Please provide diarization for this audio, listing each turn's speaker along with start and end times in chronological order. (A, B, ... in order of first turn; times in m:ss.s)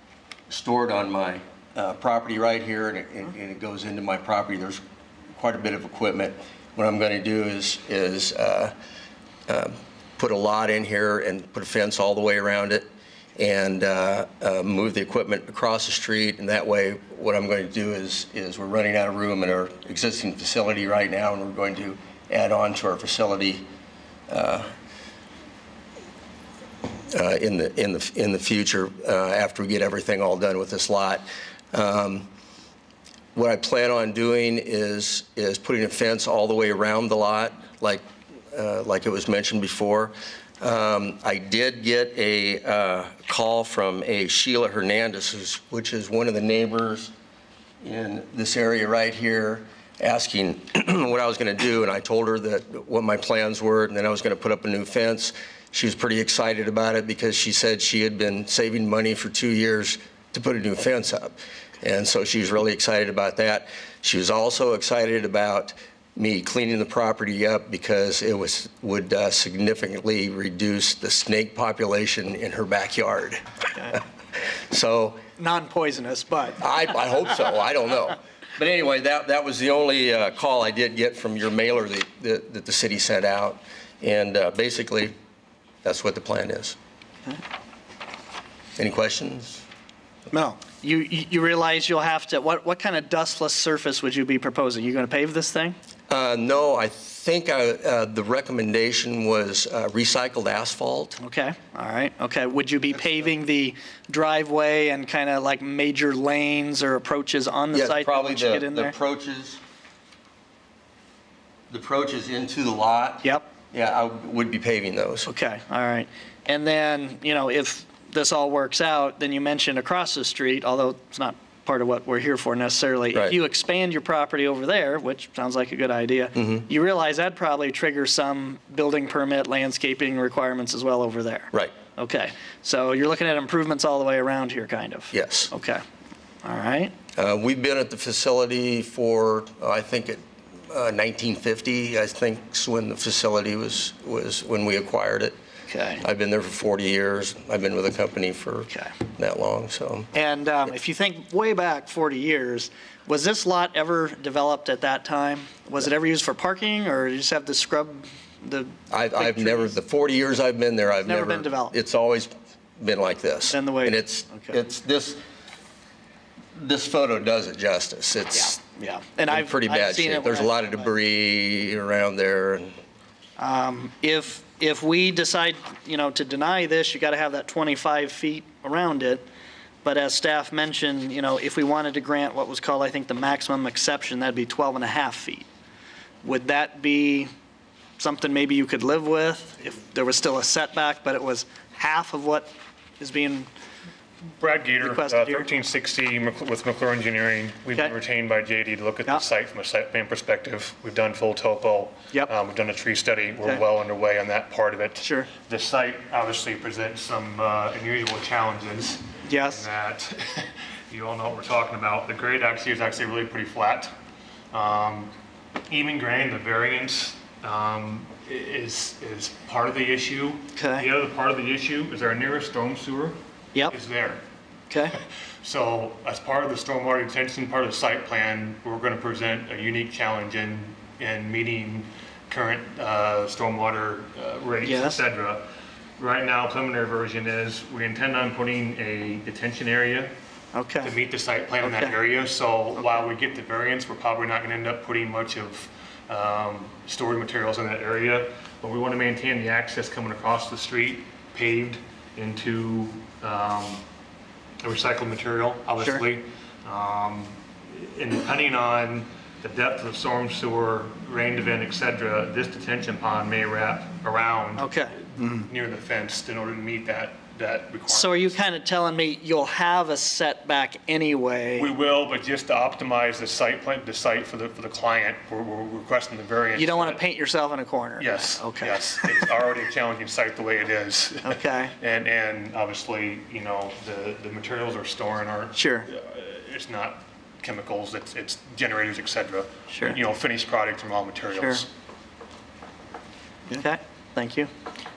0:00.5-0:04.8 A
0:05.4-0:08.7 A
0:09.5-0:12.8 A
0:13.4-0:23.6 A
0:24.3-0:24.7 A
0:27.1-0:32.3 A
0:33.3-0:47.1 A
0:47.8-1:13.4 A
1:14.6-1:15.2 A
1:15.4-1:16.6 B
1:16.6-1:25.1 A
1:25.8-1:26.8 A
1:28.8-1:29.6 A
1:30.3-1:35.8 B
1:36.1-1:41.2 A
1:41.2-1:48.9 B
1:47.7-1:49.6 A
1:51.7-1:55.3 A
1:55.2-2:15.8 B
2:06.4-2:06.6 A
2:15.1-2:15.5 A
2:16.4-2:16.9 B
2:17.2-2:25.4 A
2:25.7-2:26.0 B
2:26.0-2:30.1 A
2:30.1-2:39.7 B
2:38.9-2:45.2 A
2:41.0-2:41.7 B
2:43.4-2:44.6 B
2:46.5-2:48.6 A
2:48.3-2:50.9 B
2:49.3-2:52.7 A
2:53.4-2:59.2 B
2:59.8-3:05.5 B
3:06.2-3:07.3 B
3:08.0-3:13.5 B
3:14.4-3:33.9 C
3:14.8-3:15.5 B
3:25.0-3:25.3 B
3:29.2-3:29.7 B
3:34.5-3:35.1 C
3:35.7-3:43.2 C
3:40.6-3:40.9 B
3:43.7-3:44.2 C
3:44.7-3:45.0 B
3:45.4-3:55.5 C
3:54.6-3:55.0 B
3:56.0-4:00.1 C
4:00.5-4:00.9 B
4:00.8-4:13.8 C
4:01.6-4:01.9 B
4:14.6-4:28.3 C
4:24.6-4:25.4 B
4:27.9-4:31.7 B
4:31.6-4:37.0 C
4:36.6-4:39.3 B
4:38.0-4:51.7 C
4:41.2-4:41.7 B
4:45.6-4:45.9 B
4:49.7-4:50.0 B
4:51.3-4:51.6 B
4:53.5-4:54.5 B